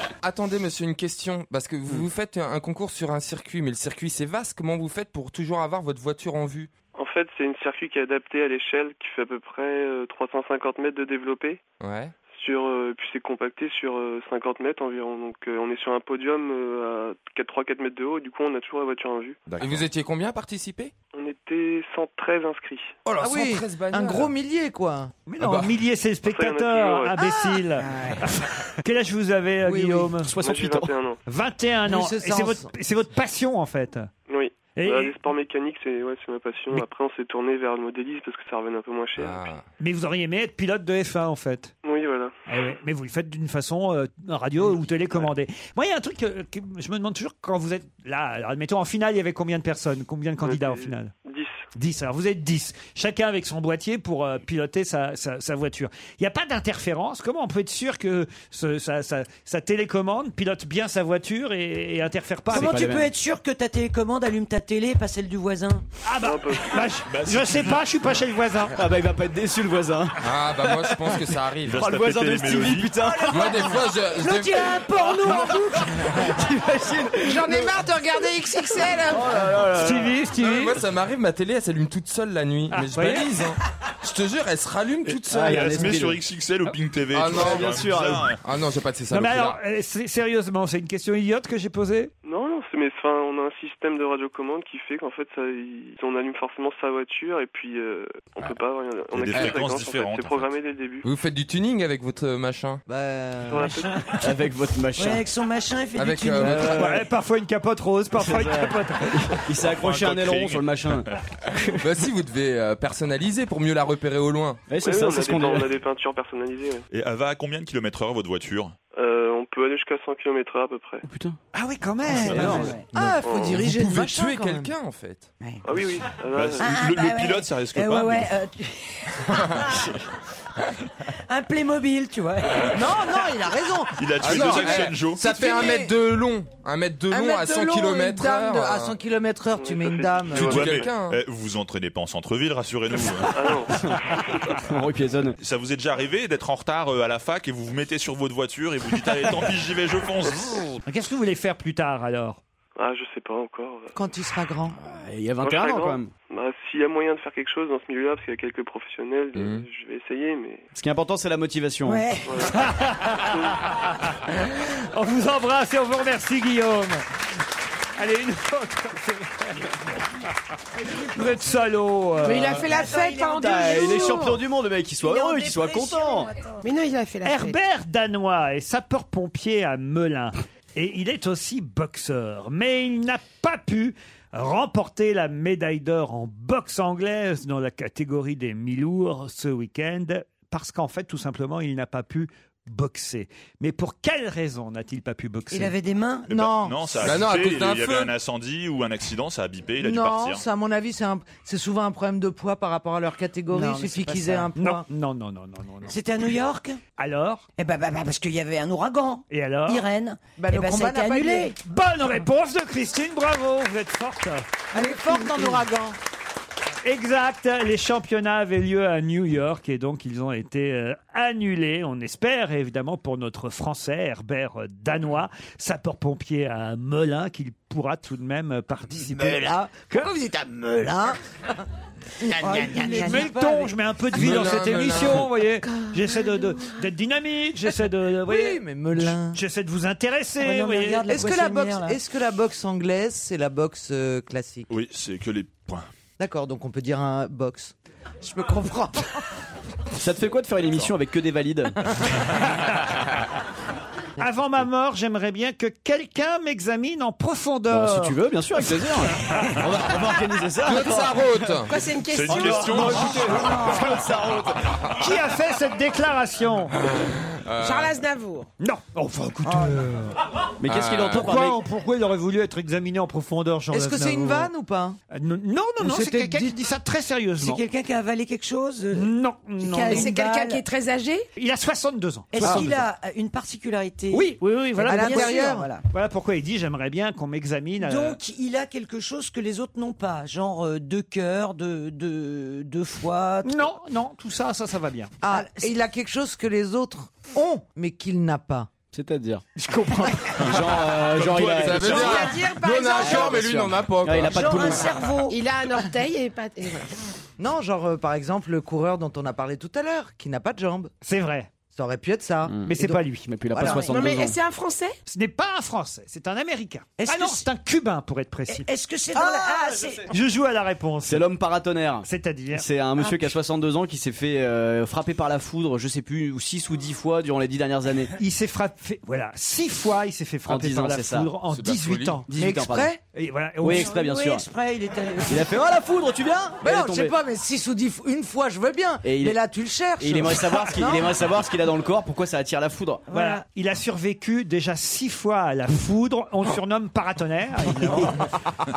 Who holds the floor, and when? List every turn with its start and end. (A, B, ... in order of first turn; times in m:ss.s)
0:00.2-0:06.7 A
0:06.9-0:11.6 B
0:11.8-0:12.1 A
0:12.3-0:19.4 B
0:19.5-0:19.8 C
0:19.5-0:20.9 A
0:21.1-0:23.0 B
0:23.2-0:25.1 D
0:23.2-0:24.3 E
0:25.3-0:30.3 F
0:25.4-0:25.7 A
0:26.2-0:27.2 B
0:27.2-0:28.2 D
0:29.6-0:30.1 D
0:30.2-0:30.9 G
0:30.4-0:31.2 B
0:31.2-0:34.1 F
0:31.8-0:32.7 D
0:34.3-0:39.5 B
0:34.8-0:35.1 F
0:39.2-0:39.6 A
0:39.8-0:41.7 F
0:41.8-0:42.3 B
0:42.5-0:51.1 F
0:50.4-0:51.6 B
0:51.7-1:02.8 F
1:02.5-1:05.8 H
1:02.5-1:03.1 G
1:06.0-1:08.8 F
1:06.2-1:06.9 B
1:07.1-1:07.8 C
1:08.7-1:13.9 G
1:10.2-1:11.9 A
1:11.6-1:13.0 C
1:13.2-1:15.0 A
1:14.2-1:16.1 H
1:15.3-1:17.9 G
1:17.2-1:19.5 E
1:18.4-1:20.2 G
1:19.7-1:20.8 F
1:20.4-1:25.9 A
1:22.7-1:23.3 F
1:25.1-1:28.4 C
1:25.2-1:26.2 G
1:27.1-1:27.7 A
1:27.3-1:28.3 G
1:28.4-1:29.6 A
1:29.1-1:32.1 F
1:32.2-1:41.1 B
1:39.1-1:40.5 C
1:39.3-1:39.6 A
1:41.0-1:42.8 A
1:42.9-1:43.7 D
1:43.5-1:44.3 B
1:44.2-1:45.2 G
1:45.0-1:47.0 H
1:46.0-1:46.9 A
1:46.4-1:47.0 G
1:46.5-1:49.3 F
1:48.2-1:51.8 G
1:49.6-1:51.0 C
1:51.8-1:54.6 A
1:54.7-1:55.8 G
1:54.8-1:56.8 B
1:56.9-1:58.7 C
1:58.9-2:01.0 B
2:01.0-2:01.4 G
2:01.5-2:02.8 F
2:02.3-2:03.2 C
2:02.3-2:02.8 G
2:02.3-2:02.8 H
2:02.9-2:04.7 D
2:03.2-2:03.6 B
2:03.6-2:05.3 A
2:05.6-2:06.8 B
2:06.3-2:08.3 C
2:06.6-2:09.9 H
2:09.3-2:09.6 A
2:11.0-2:12.9 H
2:12.7-2:16.0 D
2:14.0-2:15.3 C
2:14.2-2:19.0 A
2:17.1-2:20.7 D
2:19.6-2:20.9 B
2:20.3-2:21.2 A
2:20.3-2:23.4 C
2:23.3-2:23.7 B
2:23.7-2:25.4 G
2:25.4-2:30.7 C
2:30.8-2:32.4 F
2:32.8-2:33.9 B
2:33.9-2:34.8 D
2:34.8-2:36.1 G
2:35.4-2:40.6 B
2:39.3-2:39.6 A
2:40.7-2:42.1 G
2:41.8-2:42.5 H
2:42.3-2:42.6 B
2:42.4-2:47.0 F
2:43.2-2:43.6 B
2:48.0-2:49.7 F
2:50.9-2:52.7 F
2:52.2-2:54.4 E
2:52.5-2:54.1 H
2:52.9-2:56.3 G
2:55.0-2:56.6 H
2:56.6-2:57.6 E
2:57.2-3:15.7 F
3:15.5-3:16.3 H
3:16.3-3:17.0 D
3:16.3-3:20.4 C
3:17.0-3:18.1 A
3:19.8-3:24.8 D
3:23.5-3:24.5 H
3:24.6-3:25.9 F
3:25.8-3:26.8 H
3:27.0-3:27.4 F
3:27.6-3:31.6 H
3:29.3-3:29.8 F
3:30.4-3:31.5 D
3:31.6-3:34.4 F
3:34.7-3:36.0 D
3:34.8-3:35.2 H
3:36.8-3:50.1 F
3:49.0-3:51.6 D
3:52.2-3:53.3 D
3:52.4-3:53.7 H
3:52.8-4:01.1 F
3:54.1-3:55.4 A
3:58.2-3:59.4 D
4:00.4-4:02.0 H
4:01.1-4:04.7 D
4:04.7-4:05.8 C
4:06.2-4:09.1 D
4:10.0-4:11.8 G
4:14.2-4:18.2 F
4:17.7-4:21.6 G
4:19.2-4:19.6 F
4:20.6-4:21.7 A
4:21.7-4:22.9 E
4:22.1-4:23.9 C
4:22.3-4:24.6 G
4:22.3-4:24.1 F
4:25.0-4:26.8 F
4:26.9-4:28.0 A
4:27.6-4:28.5 E
4:28.6-4:30.1 F
4:29.4-4:29.8 D
4:30.6-4:31.6 G
4:30.6-4:31.3 A
4:31.1-4:34.5 F
4:33.7-4:35.0 D
4:35.1-4:37.6 F
4:35.8-4:36.5 D
4:37.4-4:40.6 H
4:38.9-4:40.1 F
4:39.9-4:41.2 E
4:41.4-4:42.9 F
4:42.3-4:45.8 H
4:44.1-4:48.2 F
4:44.9-4:45.7 D
4:47.8-4:53.7 H
4:53.4-4:55.1 F
4:55.2-4:58.7 D
4:55.2-4:55.7 H
4:58.9-4:59.4 G
4:59.6-5:00.8 F
5:00.4-5:02.2 G
5:00.6-5:01.7 C
5:01.2-5:04.7 A
5:01.8-5:03.5 E
5:02.9-5:05.0 G
5:04.2-5:05.4 H
5:04.6-5:06.9 E
5:07.4-5:10.9 D
5:11.0-5:11.5 F
5:11.7-5:14.0 D
5:12.5-5:14.4 G
5:12.6-5:13.3 F
5:13.7-5:14.9 E
5:15.1-5:19.5 F
5:17.0-5:17.5 H
5:18.5-5:20.1 H
5:20.0-5:21.3 F
5:21.0-5:28.1 G
5:22.0-5:22.6 F
5:28.2-5:32.3 F
5:30.5-5:31.3 G
5:31.4-5:32.2 A
5:32.3-5:32.9 G
5:32.3-5:33.0 D
5:33.1-5:33.9 F
5:33.6-5:34.5 G
5:33.7-5:35.6 H
5:35.3-5:37.1 G
5:36.6-5:41.2 D
5:39.0-5:39.4 G
5:40.0-5:43.0 G
5:43.1-5:43.4 H
5:43.1-5:48.3 F